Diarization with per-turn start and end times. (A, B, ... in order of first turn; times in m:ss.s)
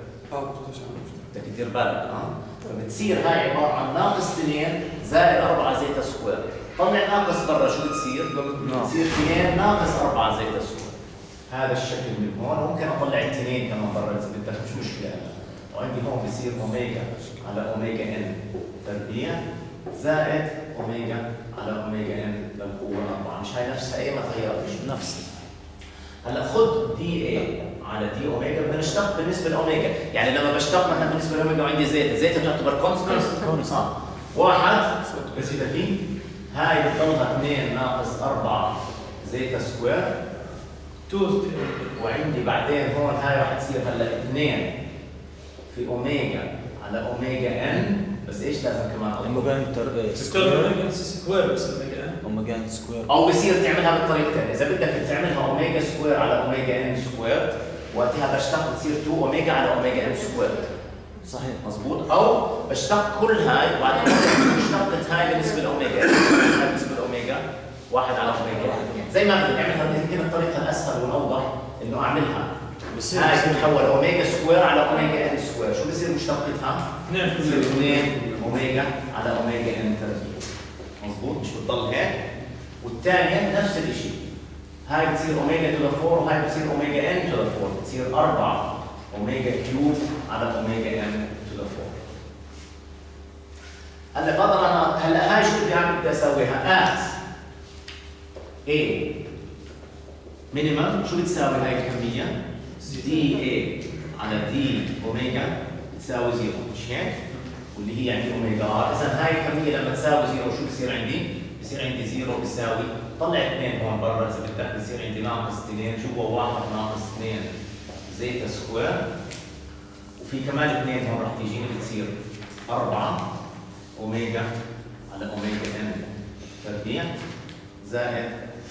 0:00.3-0:01.3 A
0:01.3-0:11.0 B
0:08.3-0:08.9 A
0:08.6-0:08.9 C
0:11.5-0:24.9 B
0:24.8-0:25.4 C
0:26.2-0:36.0 B
0:33.2-0:33.9 C
0:35.0-0:35.7 A
0:36.5-0:40.1 B
0:41.1-0:42.0 D
0:42.0-0:44.7 B
0:45.7-0:49.5 B
0:49.2-0:50.8 C
0:50.2-0:52.2 D
0:52.2-0:53.1 C
0:53.1-1:00.7 B
1:01.3-1:01.6 C
1:01.3-1:12.5 B
1:08.6-1:09.1 C
1:12.9-1:13.7 C
1:13.1-1:20.5 B
1:17.1-1:17.6 D
1:17.3-1:18.6 A
1:21.0-1:22.2 B
1:22.8-1:24.2 B
1:24.9-1:32.0 B
1:34.2-1:37.2 B
1:38.7-1:39.1 B
1:40.5-1:47.2 B
1:47.7-1:57.5 B
1:58.1-1:59.0 B
2:00.2-2:02.2 B
2:02.7-2:03.2 B
2:04.0-2:04.5 B
2:05.1-2:07.1 B
2:07.8-2:08.4 B